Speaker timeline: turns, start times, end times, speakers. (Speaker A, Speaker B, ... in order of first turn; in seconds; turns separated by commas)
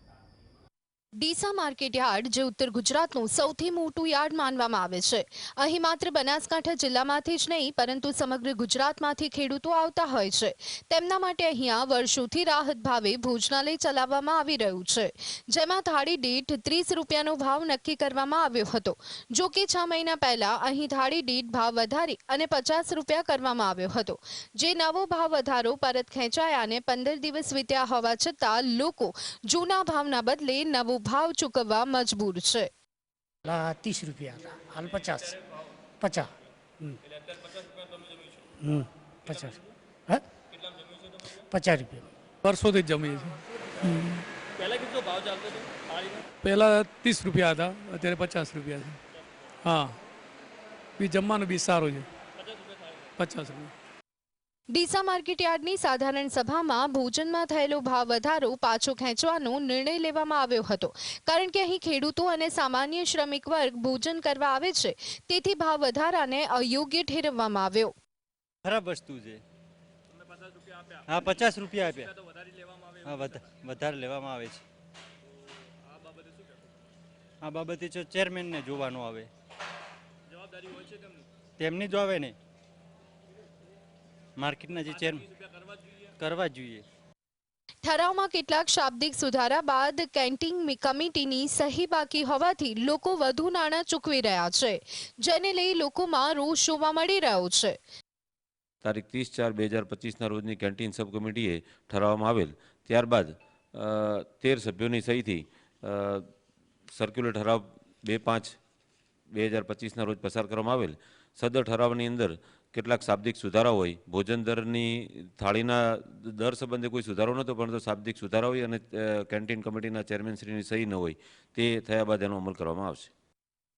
Speaker A: 1.2-32.7, Speaker B: 33.5-35.4, Speaker B: 36.0-37.0, Speaker B: 38.6-40.2, Speaker B: 41.4-42.1, Speaker C: 42.4-44.3, Speaker C: 46.4-49.0, Speaker C: 49.6-50.0, Speaker C: 51.0-52.1, Speaker C: 53.2-53.7, Speaker A: 54.7-67.9, Speaker D: 68.6-69.4, Speaker D: 71.1-72.1, Speaker D: 73.0-74.6, Speaker D: 77.4-79.3, Speaker D: 81.6-82.4, Speaker D: 84.4-85.3, Speaker D: 86.2-86.8, Speaker A: 87.8-97.8, Speaker E: 98.8-106.3, Speaker E: 107.0-108.5, Speaker E: 109.3-123.1